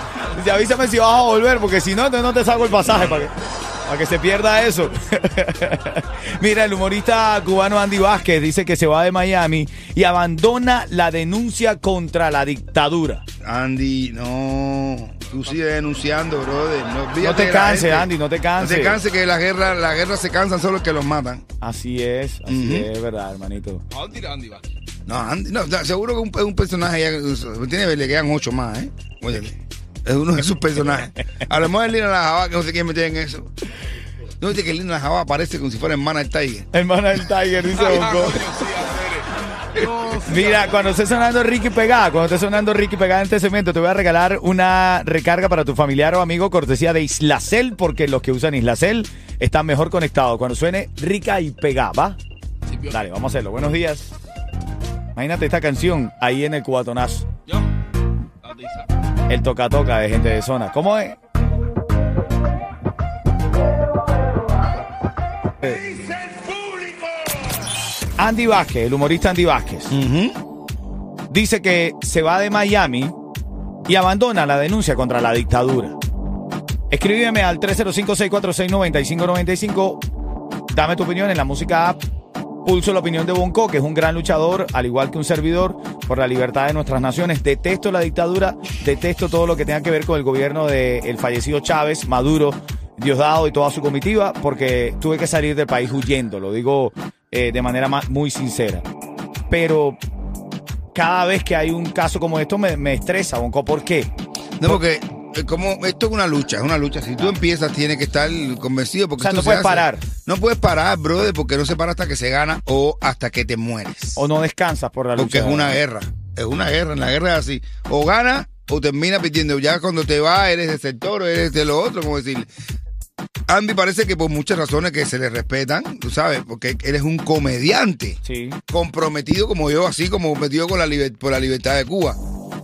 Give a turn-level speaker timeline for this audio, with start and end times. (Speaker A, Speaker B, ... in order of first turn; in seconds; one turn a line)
Speaker A: 0.3-3.3
Speaker A: 3.9-13.2
Speaker B: 13.4-21.4
Speaker A: 17.2-19.0
Speaker A: 21.6-23.8
Speaker B: 22.5-22.9
Speaker C: 23.9-24.6
Speaker B: 25.1-33.5
Speaker B: 34.4-36.7
Speaker A: 36.7-38.5
Speaker C: 37.8-40.9
Speaker A: 40.2-52.2
Speaker C: 52.7-53.0
Speaker A: 52.9-54.1
Speaker A: 55.1-57.2
Speaker C: 58.4-58.9
Speaker A: 59.3-61.2
Speaker A: 68.2-69.9
Speaker B: 69.9-70.3
Speaker A: 71.3-73.1
Speaker A: 73.9-76.0
Speaker A: 76.9-80.0
Speaker A: 80.7-82.0
Speaker A: 82.6-98.8
Speaker A: 99.5-100.0
Speaker A: 100.9-104.1
Speaker B: 104.6-114.2
Speaker A: 109.2-110.0
Speaker A: 114.2-115.8
Speaker B: 115.2-122.5
Speaker B: 123.5-128.2
Speaker A: 128.2-128.6
Speaker B: 128.7-132.2